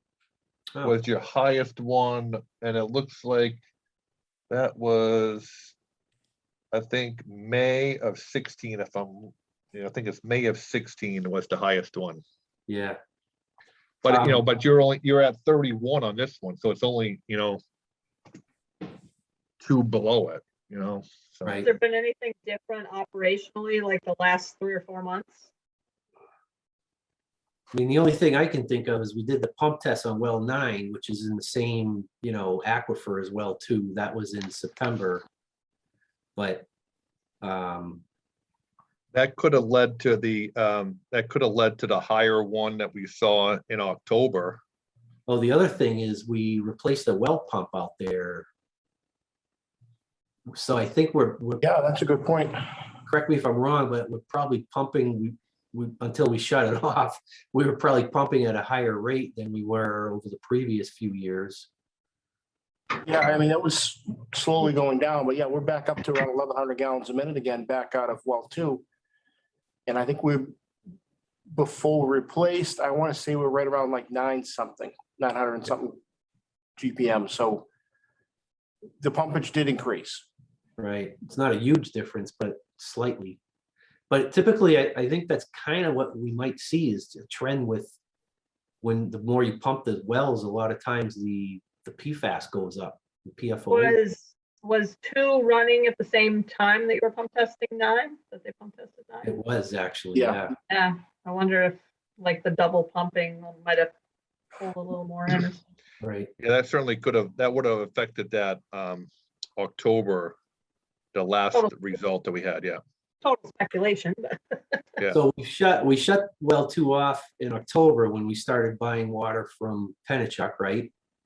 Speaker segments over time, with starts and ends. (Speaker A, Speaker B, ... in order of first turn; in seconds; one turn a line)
Speaker A: 0.8-3.6
Speaker A: 4.5-5.7
Speaker A: 6.7-12.2
Speaker B: 12.7-13.0
Speaker A: 14.0-17.6
Speaker B: 14.1-14.4
Speaker A: 19.6-21.6
Speaker B: 21.4-21.7
Speaker C: 21.6-25.5
Speaker B: 27.7-35.2
Speaker B: 36.4-36.6
Speaker B: 37.4-38.0
Speaker A: 39.1-44.6
Speaker B: 45.3-48.5
Speaker B: 50.5-51.6
Speaker D: 51.6-52.6
Speaker B: 53.1-61.7
Speaker D: 63.0-68.8
Speaker D: 69.9-70.5
Speaker D: 71.5-76.0
Speaker D: 76.8-77.7
Speaker D: 79.0-80.3
Speaker B: 80.8-83.4
Speaker B: 84.1-88.0
Speaker B: 88.8-94.0
Speaker C: 93.7-99.3
Speaker B: 99.2-100.6
Speaker D: 100.1-100.5
Speaker C: 100.7-103.9
Speaker C: 104.6-105.6
Speaker B: 106.0-106.3
Speaker A: 106.4-110.3
Speaker A: 111.1-112.8
Speaker C: 113.2-114.8
Speaker B: 115.1-120.9